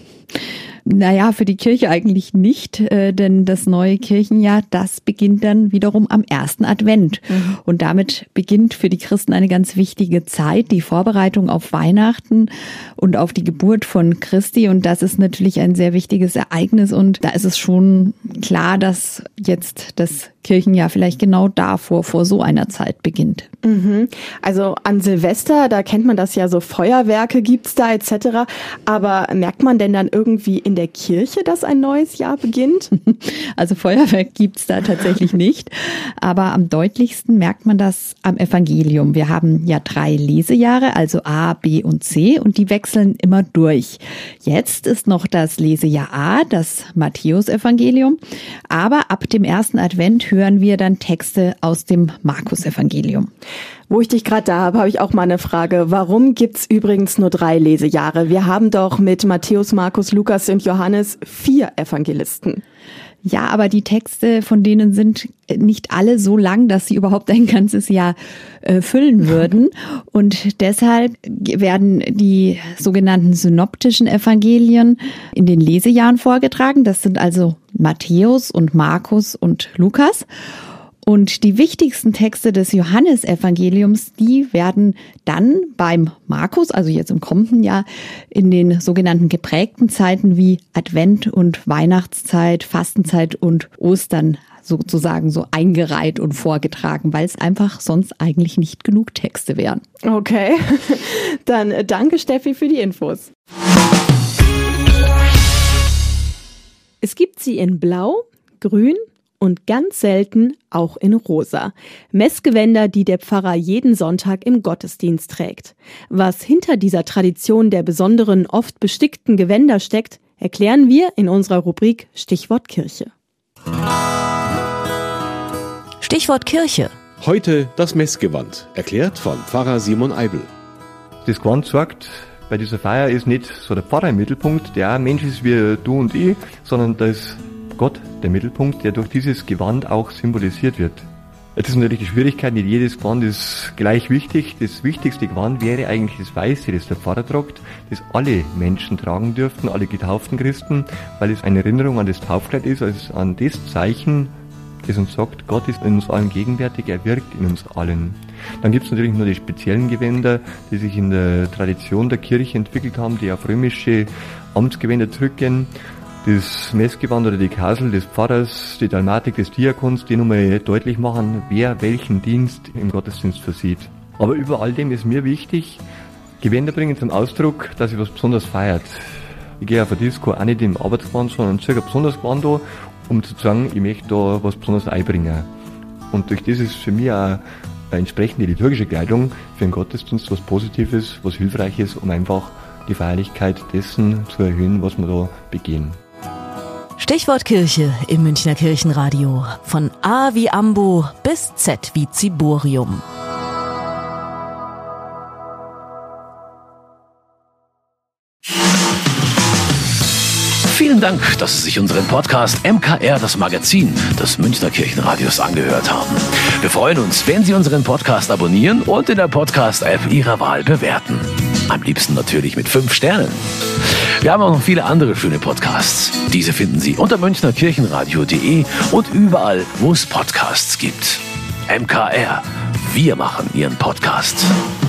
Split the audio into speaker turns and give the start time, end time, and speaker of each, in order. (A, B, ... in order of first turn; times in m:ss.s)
0:00.8-0:23.5 A
0:23.6-0:32.9 B
0:32.9-0:53.3 A
0:53.9-1:02.6 B
1:03.2-1:20.3 A
1:21.0-1:39.8 A
1:40.0-1:43.3 B
1:47.0-2:03.1 B
2:06.0-2:06.9 C
2:07.2-2:10.5 D
2:11.2-2:34.3 E
2:34.9-2:45.7 E
2:46.2-2:55.8 E
2:56.4-2:59.0 E
2:59.6-3:05.5 E
3:06.1-3:16.0 E
3:17.0-3:23.0 C
3:30.7-3:43.4 F
3:44.2-3:54.5 F